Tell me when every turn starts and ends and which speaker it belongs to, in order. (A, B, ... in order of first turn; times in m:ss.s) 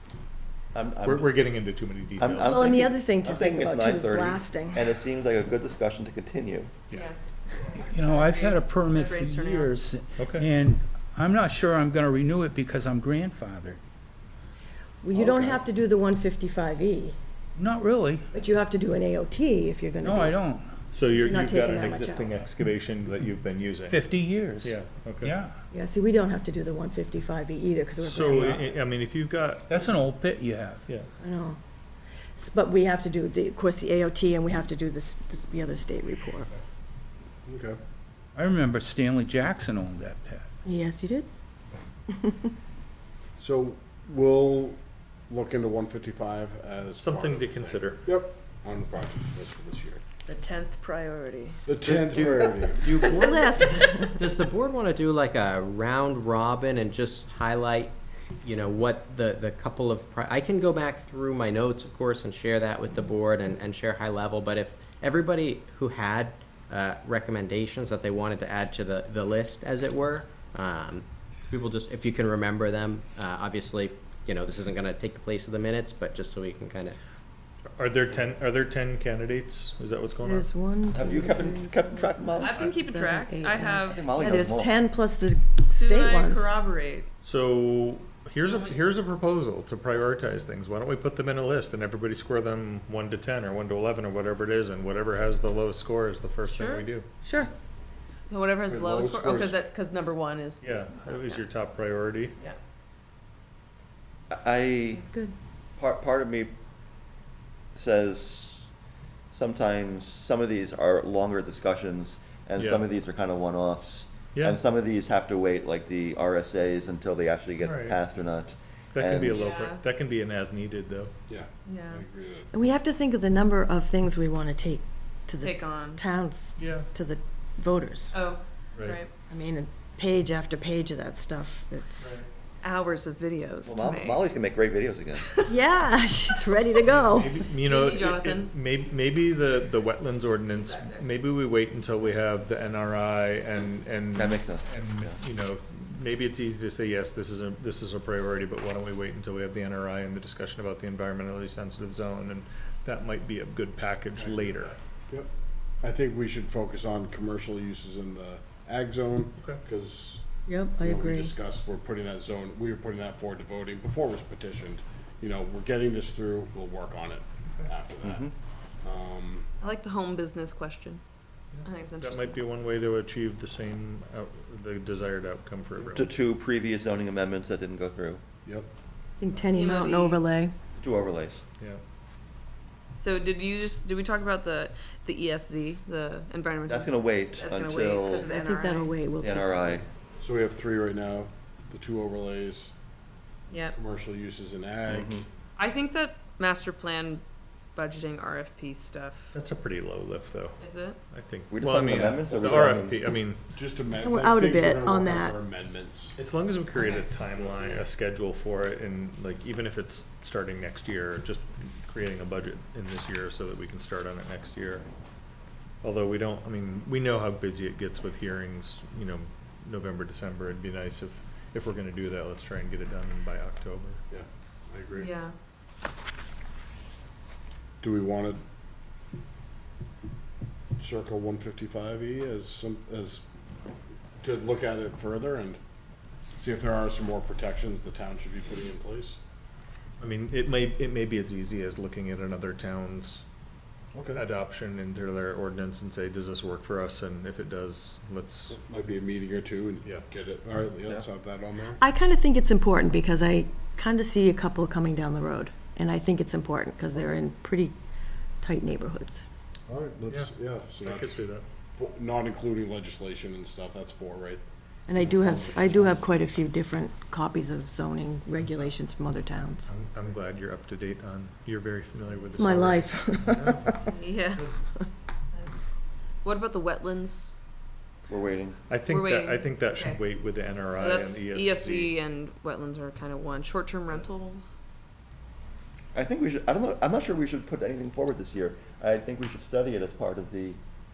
0:00.7-0:01.4 A
0:01.0-0:02.8 B
0:02.2-0:06.7 A
0:02.4-0:04.8 C
0:07.7-0:09.7 D
0:07.9-0:13.8 E
0:10.2-0:10.5 B
0:15.0-0:17.2 C
0:15.1-0:15.6 F
0:17.6-0:18.3 E
0:18.3-0:20.4 C
0:20.0-0:20.7 E
0:20.9-0:24.1 B
0:21.1-0:22.4 C
0:23.9-0:25.5 E
0:24.6-0:25.3 B
0:25.7-0:28.7 C
0:28.0-0:29.7 B
0:29.7-0:30.8 E
0:31.2-0:31.6 C
0:32.4-0:36.5 C
0:37.4-0:37.8 F
0:38.3-0:40.4 E
0:40.6-0:41.3 C
0:42.1-0:42.5 C
0:43.4-0:50.0 F
0:47.0-0:48.0 B
0:50.3-0:51.6 D
0:51.7-0:53.0 F
0:51.9-1:17.0 G
0:53.1-0:54.4 C
1:17.8-1:20.5 B
1:20.2-1:26.5 C
1:20.9-1:22.7 A
1:22.4-1:24.2 D
1:23.7-1:24.8 A
1:25.6-1:27.1 D
1:27.2-1:37.1 B
1:28.4-1:28.8 D
1:36.4-1:36.8 D
1:37.2-1:37.5 C
1:38.3-1:41.4 D
1:38.7-1:39.6 F
1:40.6-1:42.3 B
1:44.3-1:45.0 A
1:45.1-1:45.3 C
1:45.8-1:46.5 A
1:47.8-1:48.7 A
1:49.3-1:59.5 A
1:52.6-1:52.8 B
1:57.6-1:58.0 B
1:58.9-2:01.1 B
1:59.3-1:59.8 D
2:01.3-2:02.5 F
2:01.7-2:02.0 D
2:02.5-2:08.2 C
2:05.4-2:06.0 D
2:06.6-2:06.9 B
2:08.1-2:09.1 D
2:09.3-2:12.2 C
2:12.0-2:12.3 B
2:12.6-2:14.3 D
2:13.6-2:15.3 A
2:15.5-2:17.4 C
2:16.8-2:34.8 B
2:17.6-2:18.5 D
2:20.5-2:21.0 D
2:24.2-2:25.2 A
2:34.2-2:34.5 F
2:35.8-2:40.2 F
2:40.5-2:41.4 C
2:40.8-2:48.3 F
2:48.0-2:48.3 A
2:48.8-2:49.5 F
2:49.6-2:51.0 D
2:51.5-2:56.1 B
2:51.6-2:52.4 D
2:55.9-2:58.2 A
2:59.2-3:00.5 C
2:59.5-3:00.2 D
3:00.8-3:01.4 A
3:03.0-3:09.0 D
3:06.7-3:08.3 A
3:08.2-3:09.8 C
3:09.2-3:09.8 A
3:10.2-3:12.7 F
3:13.5-3:13.8 D
3:13.7-3:15.2 F
3:14.9-3:15.2 A
3:15.6-3:17.2 D
3:17.8-3:19.3 D
3:19.3-3:20.6 B
3:20.6-3:21.0 D
3:21.1-3:23.4 B
3:21.5-3:23.0 A
3:23.5-3:26.2 F
3:24.0-3:25.4 C
3:26.2-3:34.8 B
3:26.8-3:27.0 D
3:27.4-3:27.8 F
3:35.8-3:44.0 B
3:44.1-3:45.1 F
3:44.9-3:45.3 D
3:47.8-3:48.4 F
3:50.8-3:53.2 F
3:54.2-3:55.6 F
3:56.4-3:59.2 F
4:00.0-4:03.2 B
4:03.9-4:04.2 F
4:04.1-4:08.6 B
4:08.5-4:11.8 F
4:11.8-4:17.7 C
4:18.4-4:19.2 C
4:19.7-4:24.4 F
4:20.8-4:21.4 B
4:24.9-4:29.7 C
4:25.0-4:26.0 F
4:29.7-4:34.6 B
4:32.3-4:33.8 C
4:33.9-4:34.5 D
4:36.2-4:37.3 D
4:38.1-4:38.6 A
4:38.7-4:41.9 B
4:38.9-4:40.0 D
4:40.7-4:44.6 D
4:45.9-4:50.6 A